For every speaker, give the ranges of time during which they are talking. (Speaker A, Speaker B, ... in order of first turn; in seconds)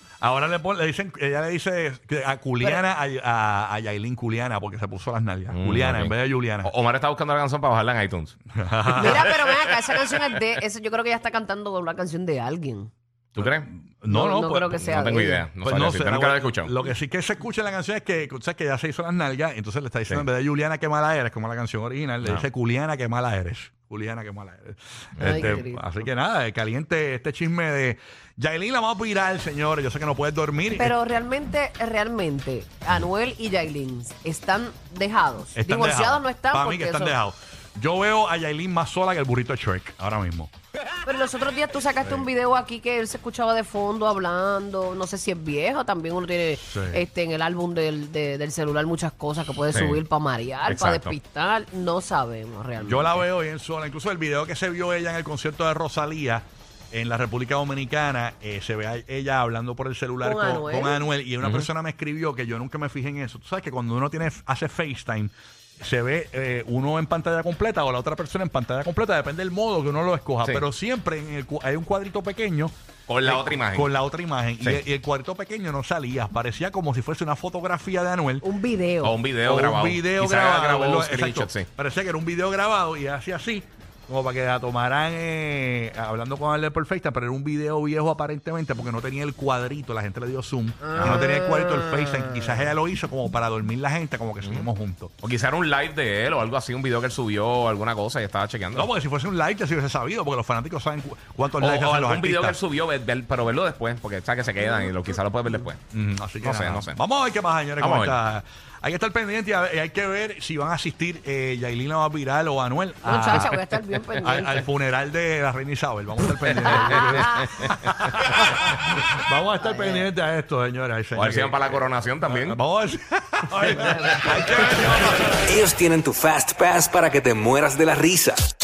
Speaker A: 0.2-6.7, 8.5-9.3, 13.4-30.9, 35.5-40.5, 46.7-47.0, 52.8-72.7, 73.2-78.5, 79.5-95.1, 98.8-102.6, 105.9-113.6, 114.2-125.5
Speaker B: 5.5-6.1, 6.6-8.4, 8.9-9.9, 13.4-13.7, 14.9-16.7, 25.2-25.6, 49.7-50.0, 50.7-51.1, 73.1-73.9, 79.0-81.7, 91.0-91.2, 94.4-94.7, 95.2-98.9, 101.6-105.8, 106.4-107.0, 107.8-108.2, 116.7-118.5, 121.2-122.6
Speaker C: 9.0-12.9, 14.1-15.5, 25.2-25.8, 30.7-37.2, 41.0-53.2, 60.2-61.0, 78.4-79.2, 90.8-92.5, 113.0-114.7, 116.7-117.5, 119.6-120.1, 123.7-124.7
Speaker D: 125.5-128.4